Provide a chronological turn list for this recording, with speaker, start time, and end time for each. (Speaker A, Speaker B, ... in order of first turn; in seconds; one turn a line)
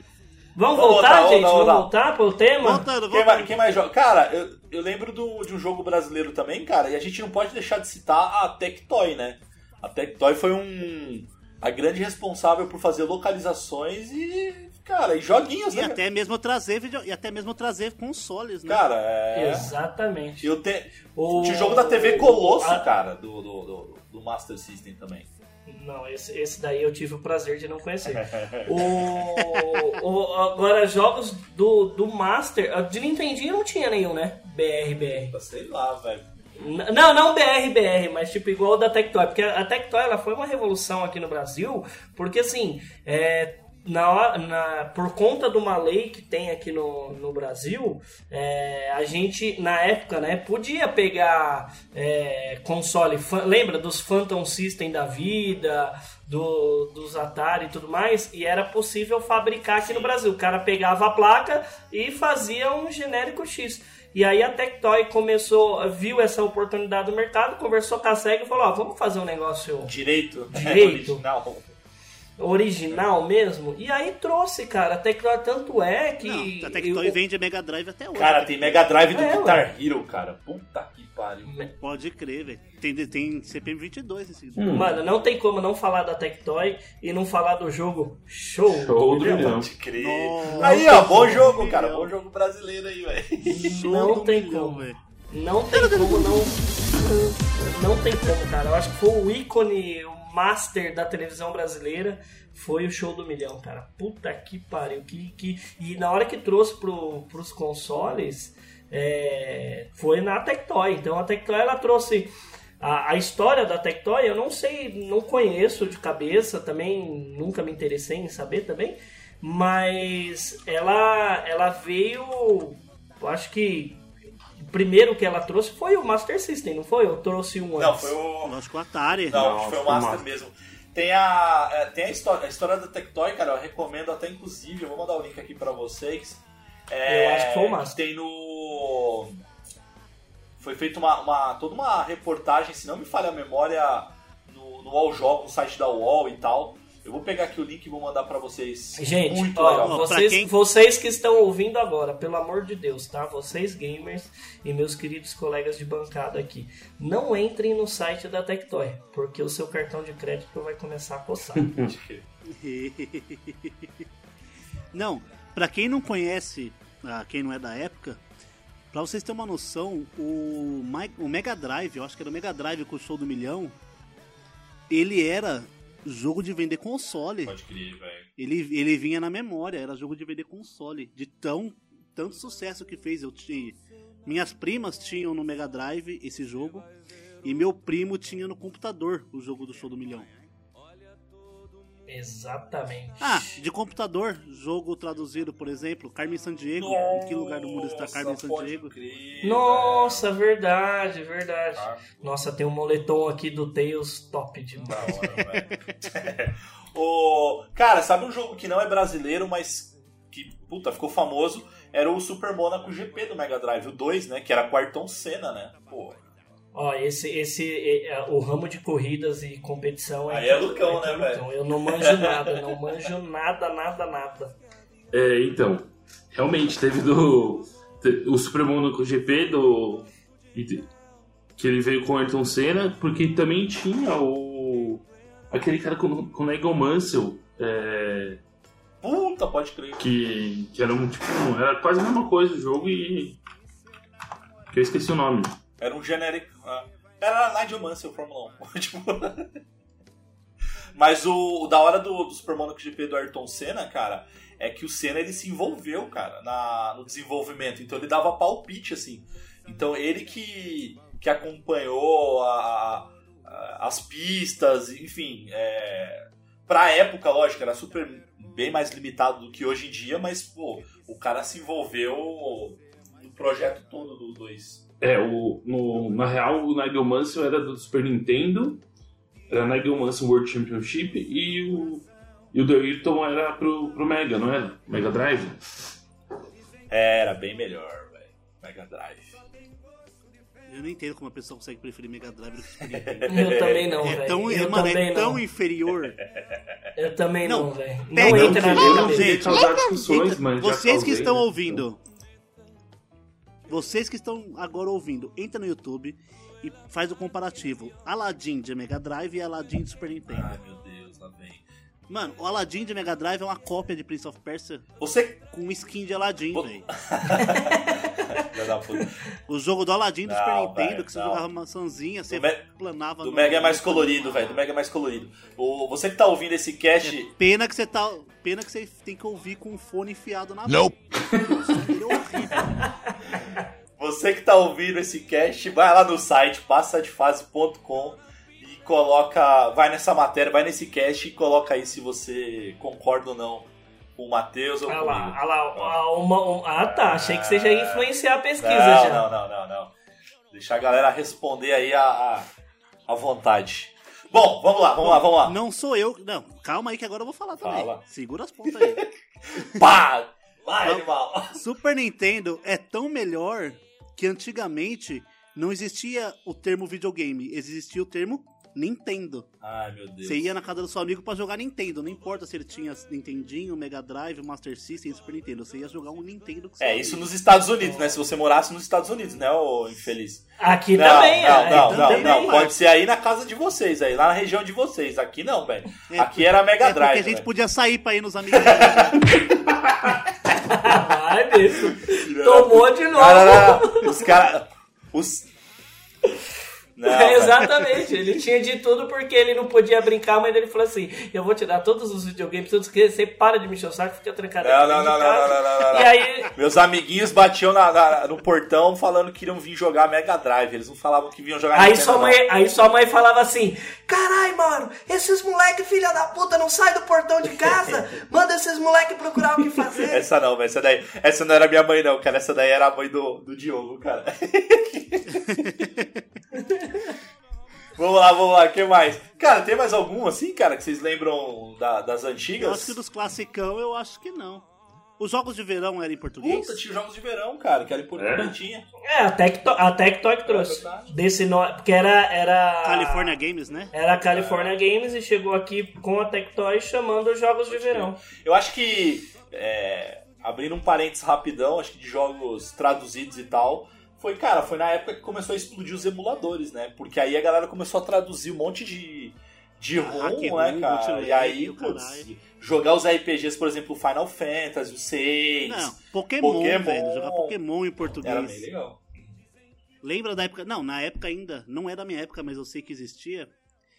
Speaker A: 0.6-2.9
Speaker B: 0.7-1.9
Speaker C: 2.6-3.7
Speaker B: 3.1-16.0
Speaker C: 15.7-18.8
Speaker B: 18.7-19.7
Speaker A: 19.3-20.5
Speaker B: 20.4-25.3
Speaker A: 21.1-22.8
Speaker A: 25.7-35.3
Speaker B: 28.2-29.8
Speaker B: 35.1-36.3
Speaker A: 36.6-69.9
Speaker B: 59.7-60.1
Speaker B: 69.8-71.7
Speaker A: 70.5-71.2
Speaker A: 72.4-77.2
Speaker C: 76.2-78.9
Speaker B: 78.1-81.5
Speaker A: 79.1-79.7
Speaker C: 81.8-85.0
Speaker D: 84.5-85.0
Speaker A: 84.7-89.4
Speaker D: 88.7-89.7
Speaker B: 89.1-93.8
Speaker C: 90.0-92.1
Speaker A: 90.7-91.0
Speaker A: 93.5-124.0
Speaker C: 93.5-95.0
Speaker C: 95.7-96.6
Speaker A: 124.6-128.1
Speaker B: 127.8-128.6
Speaker C: 128.4-129.4
Speaker B: 129.3-139.4
Speaker D: 129.3-130.3
Speaker A: 137.0-138.0
Speaker B: 140.6-150.0
Speaker A: 149.0-161.7
Speaker C: 149.8-150.5
Speaker D: 161.6-161.9
Speaker B: 161.8-162.2
Speaker C: 162.4-164.1
Speaker C: 164.9-168.2
Speaker C: 168.9-173.8
Speaker C: 174.9-177.6
Speaker B: 177.4-178.3
Speaker C: 178.4-186.9
Speaker C: 187.4-190.3
Speaker A: 192.1-193.6
Speaker C: 193.2-198.9
Speaker B: 196.8-200.2
Speaker A: 199.4-205.2
Speaker B: 201.8-202.3
Speaker B: 204.9-216.3
Speaker A: 216.7-224.5
Speaker B: 220.3-222.5
Speaker D: 225.1-230.9
Speaker D: 231.6-238.4
Speaker B: 239.0-240.0
Speaker D: 240.0-243.4
Speaker D: 244.7-245.6
Speaker B: 245.8-249.5
Speaker B: 250.9-274.8
Speaker D: 275.0-278.8
Speaker D: 279.5-285.6
Speaker B: 286.9-289.4
Speaker C: 290.7-293.4
Speaker B: 292.8-294.0
Speaker A: 293.3-295.4
Speaker C: 294.0-296.2
Speaker A: 296.9-299.4
Speaker C: 297.4-302.0
Speaker D: 298.2-301.8
Speaker C: 303.7-310.6
Speaker B: 310.3-311.6
Speaker C: 312.1-314.9
Speaker B: 315.0-315.4
Speaker C: 315.5-316.9
Speaker B: 316.5-319.2
Speaker A: 317.4-317.8
Speaker C: 319.5-324.6
Speaker B: 320.2-321.4
Speaker B: 322.3-322.6
Speaker B: 323.2-327.3
Speaker C: 327.0-332.6
Speaker B: 334.0-346.0
Speaker A: 344.9-349.3
Speaker B: 346.8-348.1
Speaker B: 348.6-349.9
Speaker B: 350.5-352.5
Speaker B: 353.1-355.6
Speaker C: 355.0-359.8
Speaker B: 357.6-358.0
Speaker B: 358.7-361.6
Speaker C: 360.8-369.5
Speaker B: 369.6-370.5
Speaker C: 370.2-377.3
Speaker B: 376.8-387.5
Speaker A: 377.8-378.2
Speaker A: 380.6-382.7
Speaker C: 381.3-382.7
Speaker C: 386.1-389.2
Speaker B: 388.5-389.3
Speaker A: 390.6-394.1
Speaker B: 392.1-395.5
Speaker B: 397.0-397.9
Speaker A: 397.0-406.5
Speaker B: 404.6-412.4
Speaker A: 411.7-420.2
Speaker B: 417.6-417.9
Speaker B: 420.0-425.8
Speaker C: 425.5-426.2
Speaker A: 426.7-427.1
Speaker B: 427.9-433.0
Speaker C: 432.6-434.7
Speaker C: 435.2-436.8
Speaker B: 436.4-438.9
Speaker D: 438.1-438.5
Speaker A: 439.0-443.4
Speaker B: 440.4-441.1
Speaker C: 442.8-443.9
Speaker A: 443.9-448.2
Speaker B: 444.1-444.7
Speaker B: 447.7-469.0
Speaker C: 459.9-462.3
Speaker C: 465.6-468.7
Speaker C: 470.0-473.5